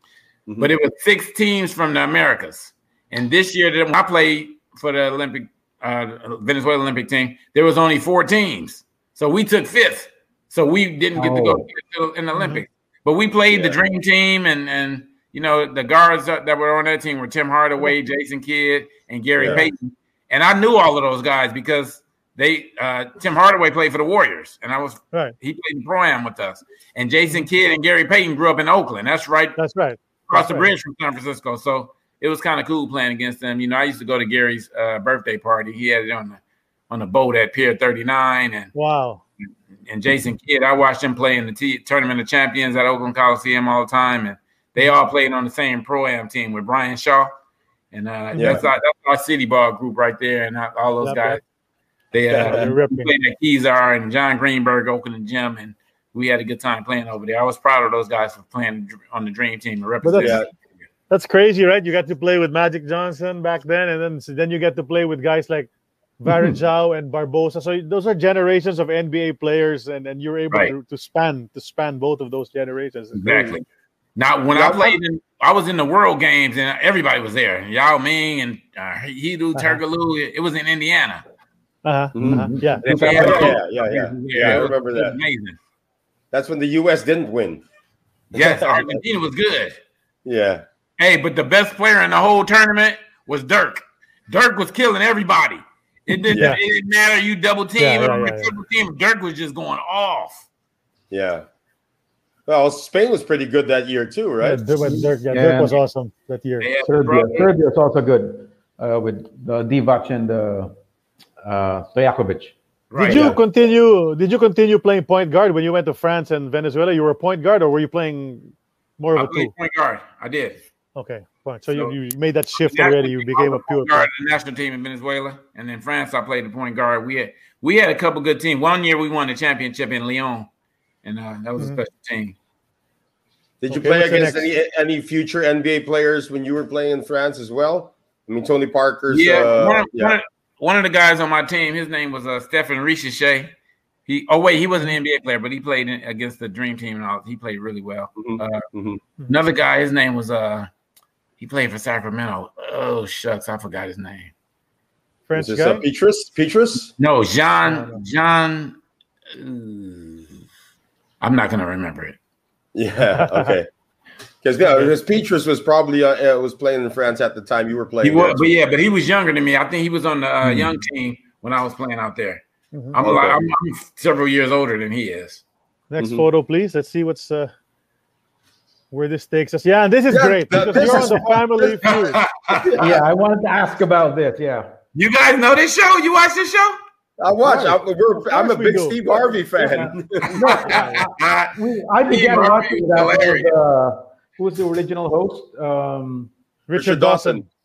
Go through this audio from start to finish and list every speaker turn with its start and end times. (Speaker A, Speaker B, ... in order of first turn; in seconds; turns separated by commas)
Speaker A: 0.5-0.7, Speaker B: 0.6-29.6, Speaker C: 11.2-11.7, Speaker D: 12.3-12.6, Speaker A: 13.5-13.8, Speaker A: 19.4-19.7, Speaker D: 19.4-19.7, Speaker D: 29.6-30.7, Speaker B: 30.3-38.7, Speaker D: 38.7-39.2, Speaker B: 39.9-47.3, Speaker B: 47.9-51.4, Speaker D: 48.3-48.6, Speaker A: 48.4-48.6, Speaker D: 51.0-51.4, Speaker B: 52.1-60.5, Speaker A: 52.3-52.7, Speaker D: 52.4-53.1, Speaker D: 60.0-60.4, Speaker A: 60.2-60.5, Speaker D: 61.1-65.7, Speaker D: 66.2-73.6, Speaker C: 66.3-66.5, Speaker B: 73.2-73.7, Speaker B: 74.2-81.2, Speaker A: 74.5-75.0, Speaker D: 81.8-83.5, Speaker A: 82.2-82.4, Speaker C: 82.2-83.6, Speaker B: 82.8-85.6, Speaker A: 83.0-85.2, Speaker A: 86.3-87.6, Speaker B: 88.3-89.8, Speaker A: 88.3-89.0, Speaker A: 90.2-90.6, Speaker B: 91.0-100.5, Speaker A: 96.3-96.6, Speaker D: 96.3-96.6, Speaker D: 97.8-98.5, Speaker A: 101.1-101.5, Speaker A: 102.5-104.7, Speaker D: 104.4-106.7, Speaker C: 104.8-105.8, Speaker B: 106.6-107.5, Speaker C: 106.8-110.7, Speaker C: 111.4-113.4, Speaker B: 112.9-113.4, Speaker D: 113.0-119.5, Speaker B: 119.2-120.6, Speaker D: 121.0-124.1, Speaker B: 122.5-130.5, Speaker B: 131.0-132.3, Speaker A: 133.6-140.2, Speaker D: 133.7-134.5, Speaker B: 139.1-143.5, Speaker B: 144.1-148.7, Speaker A: 148.2-149.0, Speaker B: 149.3-150.7, Speaker B: 151.4-154.3, Speaker D: 155.3-155.8, Speaker A: 155.4-156.9, Speaker B: 157.0-158.8, Speaker D: 157.7-158.0, Speaker B: 159.3-160.3, Speaker B: 161.2-162.2, Speaker A: 162.8-163.7, Speaker D: 163.1-163.5, Speaker A: 164.4-168.5, Speaker D: 164.6-164.9, Speaker B: 168.0-175.4, Speaker C: 170.4-170.7, Speaker D: 172.7-173.0, Speaker A: 173.0-173.5, Speaker D: 175.9-177.5, Speaker A: 176.0-176.2, Speaker D: 178.9-182.2, Speaker A: 180.1-182.0, Speaker B: 181.8-182.8, Speaker A: 182.7-183.0, Speaker C: 182.7-184.7, Speaker B: 184.9-186.8, Speaker A: 187.2-190.4, Speaker D: 187.4-189.9, Speaker C: 189.6-196.3, Speaker B: 190.3-191.6, Speaker D: 190.4-191.1, Speaker B: 192.1-193.5, Speaker D: 196.7-197.4, Speaker A: 196.8-197.5